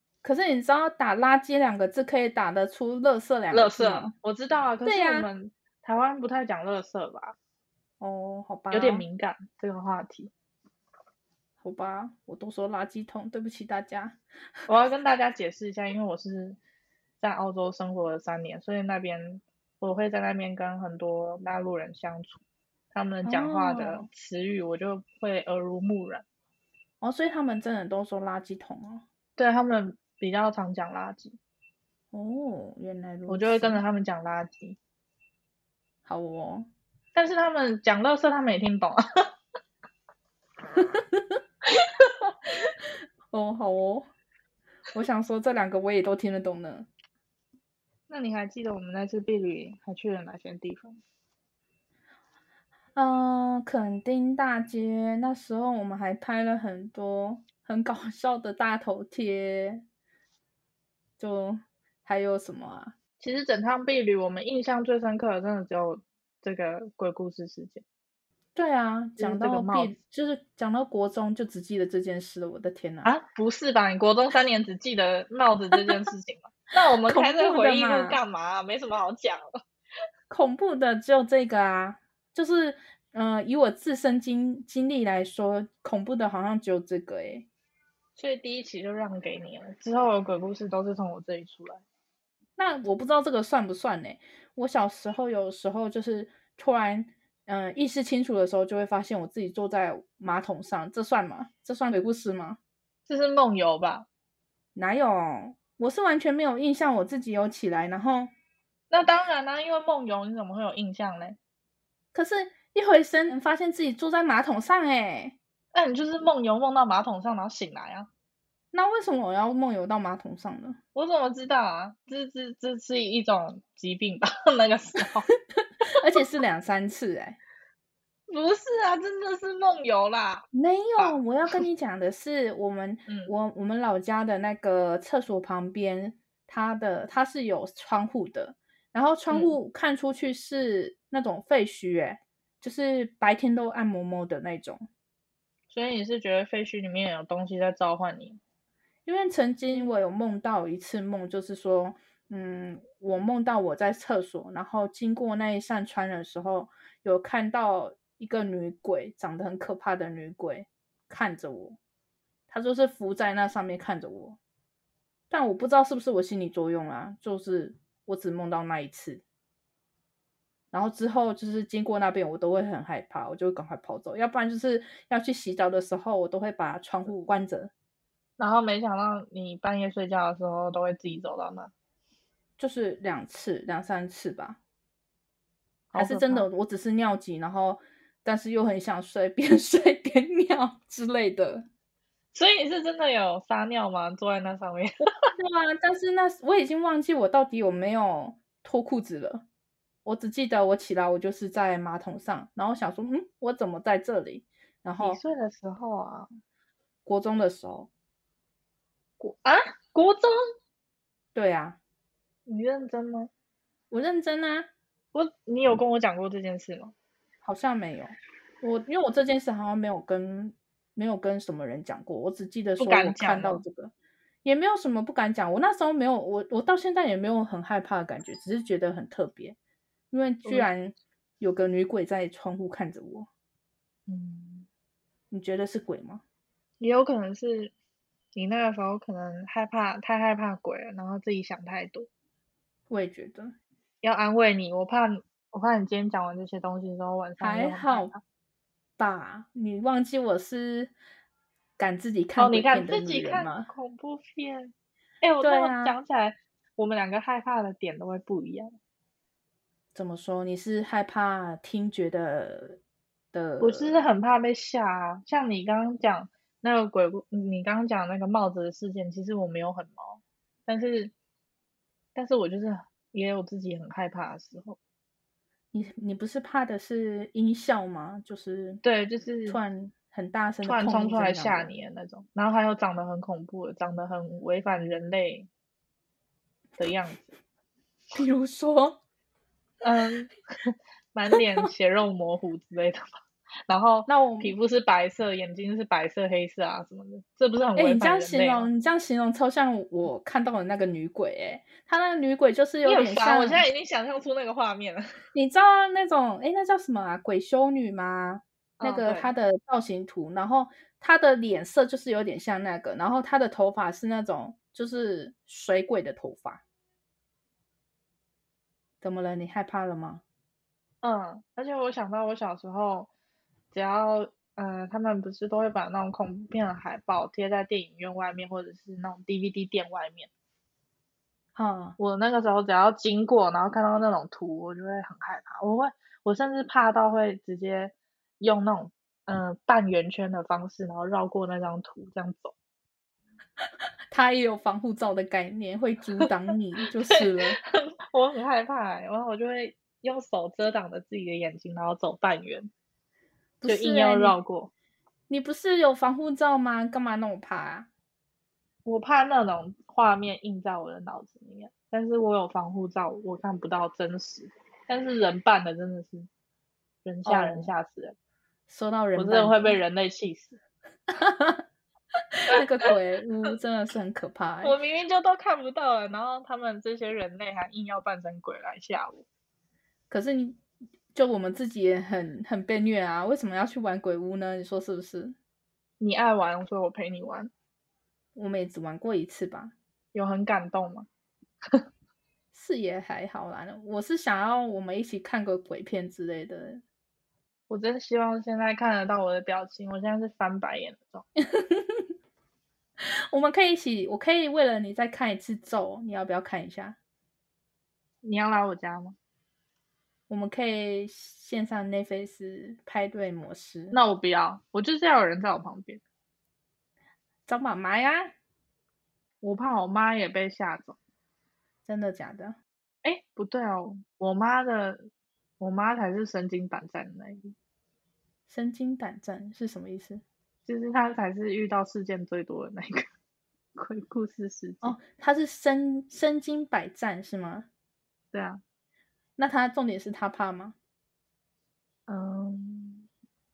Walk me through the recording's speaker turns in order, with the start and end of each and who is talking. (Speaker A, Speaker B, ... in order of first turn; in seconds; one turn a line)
Speaker A: 0.2-4.1
Speaker B: 3.5-7.4
Speaker A: 4.8-5.3
Speaker A: 8.0-9.0
Speaker B: 8.7-10.3
Speaker A: 11.6-14.2
Speaker B: 14.7-16.6
Speaker B: 17.2-22.4
Speaker B: 22.9-26.2
Speaker A: 23.2-24.1
Speaker A: 27.0-29.0
Speaker B: 29.4-31.4
Speaker A: 32.1-33.8
Speaker B: 33.3-34.8
Speaker A: 36.0-36.7
Speaker B: 37.1-39.0
Speaker A: 40.7-41.4
Speaker B: 41.8-42.7
Speaker A: 43.3-44.1
Speaker A: 44.9-46.9
Speaker B: 48.1-51.0
Speaker A: 52.9-59.8
Speaker A: 61.2-62.9
Speaker B: 63.2-67.8
Speaker A: 68.5-73.1
Speaker B: 69.2-69.9
Speaker B: 73.0-79.5
Speaker A: 77.0-78.2
Speaker A: 80.3-87.5
Speaker B: 88.2-91.8
Speaker A: 92.6-102.6
Speaker B: 103.1-104.1
Speaker A: 104.8-108.3
Speaker B: 108.9-111.4
Speaker A: 112.1-115.4
Speaker B: 115.7-118.1
Speaker A: 118.7-120.8
Speaker B: 120.9-125.3
Speaker A: 125.8-127.4
Speaker B: 128.3-130.4
Speaker A: 130.5-144.9
Speaker B: 133.1-133.3
Speaker B: 139.3-139.6
Speaker B: 145.7-148.4
Speaker A: 149.1-161.8
Speaker A: 162.5-164.4
Speaker A: 165.3-169.2
Speaker A: 170.7-177.7
Speaker B: 178.4-181.7
Speaker A: 182.6-184.6
Speaker B: 185.9-186.5
Speaker A: 185.9-191.7
Speaker B: 192.3-195.0
Speaker A: 195.4-199.4
Speaker A: 200.0-205.2
Speaker B: 205.0-206.3
Speaker A: 207.1-207.9
Speaker B: 209.2-210.3
Speaker A: 211.3-211.8
Speaker B: 212.5-213.3
Speaker A: 213.9-214.7
Speaker B: 215.1-216.9
Speaker A: 217.4-223.9
Speaker B: 222.8-223.6
Speaker A: 224.4-229.6
Speaker A: 230.1-233.3
Speaker B: 230.4-230.7
Speaker B: 234.1-234.7
Speaker A: 235.3-236.2
Speaker B: 236.8-237.7
Speaker B: 238.3-242.1
Speaker A: 242.9-243.5
Speaker B: 244.0-248.2
Speaker A: 247.4-248.1
Speaker A: 249.0-250.9
Speaker A: 251.8-253.7
Speaker B: 252.4-258.8
Speaker A: 255.4-256.0
Speaker A: 259.9-262.8
Speaker A: 263.3-263.9
Speaker B: 263.6-271.1
Speaker B: 272.1-274.8
Speaker A: 275.7-278.8
Speaker B: 278.8-279.6
Speaker A: 279.5-281.7
Speaker B: 280.6-285.5
Speaker B: 286.8-287.3
Speaker A: 288.1-289.0
Speaker B: 289.8-293.1
Speaker B: 293.7-298.7
Speaker A: 294.1-294.6
Speaker A: 297.8-303.6
Speaker B: 302.8-305.0
Speaker A: 305.3-316.6
Speaker B: 308.8-309.3
Speaker A: 319.0-320.2
Speaker B: 321.0-323.1
Speaker B: 323.7-330.3
Speaker A: 331.6-332.0
Speaker B: 332.0-342.6
Speaker A: 344.1-347.6
Speaker B: 347.1-352.7
Speaker A: 353.6-354.4
Speaker B: 353.6-354.7
Speaker A: 355.3-357.9
Speaker B: 358.9-366.3
Speaker B: 367.1-368.1
Speaker A: 367.2-367.7
Speaker A: 368.7-369.8
Speaker B: 369.1-370.6
Speaker A: 371.1-371.6
Speaker A: 372.4-374.8
Speaker B: 374.6-379.2
Speaker A: 380.1-380.6
Speaker A: 381.1-385.4
Speaker B: 386.0-387.5
Speaker A: 388.4-389.7
Speaker B: 390.1-391.1
Speaker A: 392.5-396.8
Speaker B: 397.7-401.2
Speaker A: 401.4-402.1
Speaker A: 403.3-407.0
Speaker B: 408.2-409.1
Speaker A: 410.3-414.0
Speaker B: 413.9-416.0
Speaker A: 417.5-418.3
Speaker B: 419.4-421.0
Speaker A: 421.9-422.6
Speaker B: 423.0-425.1
Speaker B: 425.6-427.5
Speaker A: 428.5-430.2
Speaker B: 430.6-433.1
Speaker B: 433.8-434.9
Speaker A: 434.8-437.7
Speaker B: 438.3-438.6
Speaker A: 439.4-440.8
Speaker B: 442.1-443.1